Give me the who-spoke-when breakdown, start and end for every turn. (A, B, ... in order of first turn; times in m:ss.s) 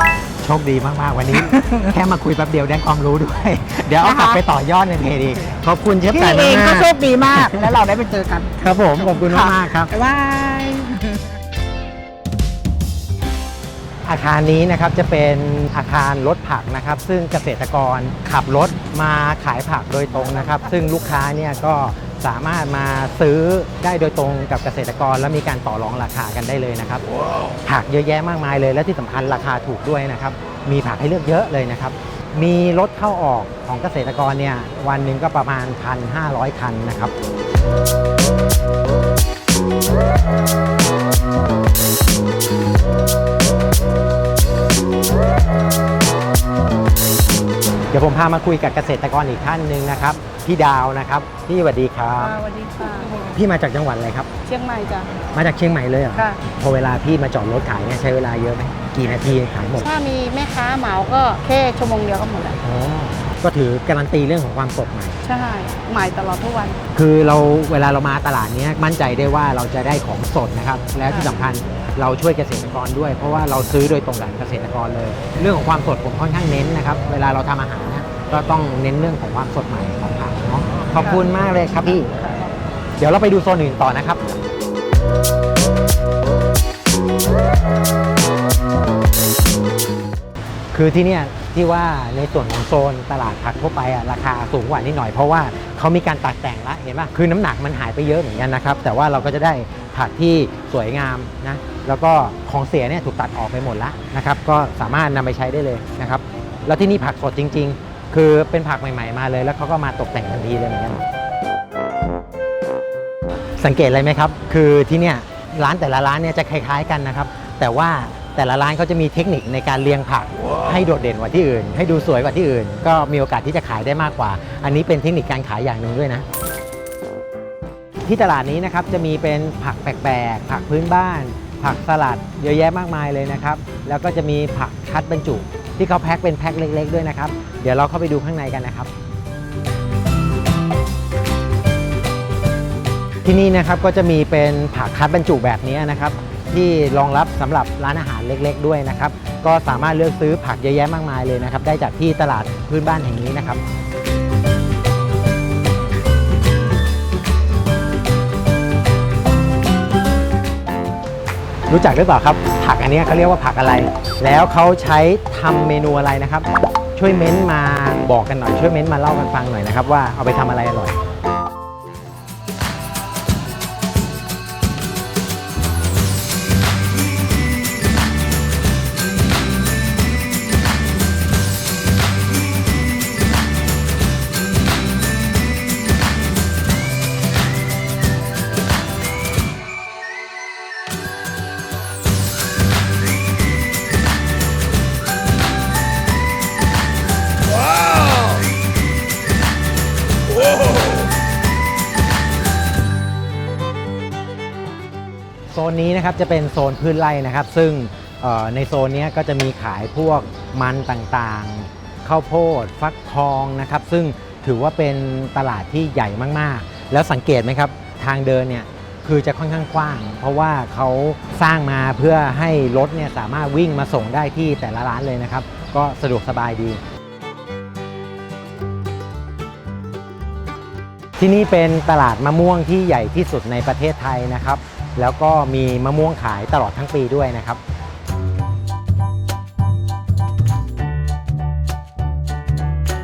0:00.4-0:07.7 A
0:01.3-0:01.9 B
0:04.0-0:04.4 B
0:06.1-0:11.3 B
0:08.6-0:09.9 A
0:14.0-0:27.0 A
0:27.6-0:37.1 A
0:47.9-0:52.4 A
0:52.2-0:53.4 C
0:53.3-0:54.3 A
0:54.4-0:55.1 C
0:55.3-0:59.9 A
0:59.8-1:02.6 C
1:02.6-1:05.2 A
1:05.2-1:06.8 C
1:06.9-1:22.1 A
1:21.9-1:22.5 C
1:23.0-1:24.2 A
1:30.7-1:51.0 A
1:53.6-2:06.3 A
2:08.1-2:18.9 A
2:23.2-2:33.6 A
2:41.7-2:51.0 A
3:25.5-3:46.8 A
3:51.2-3:57.6 A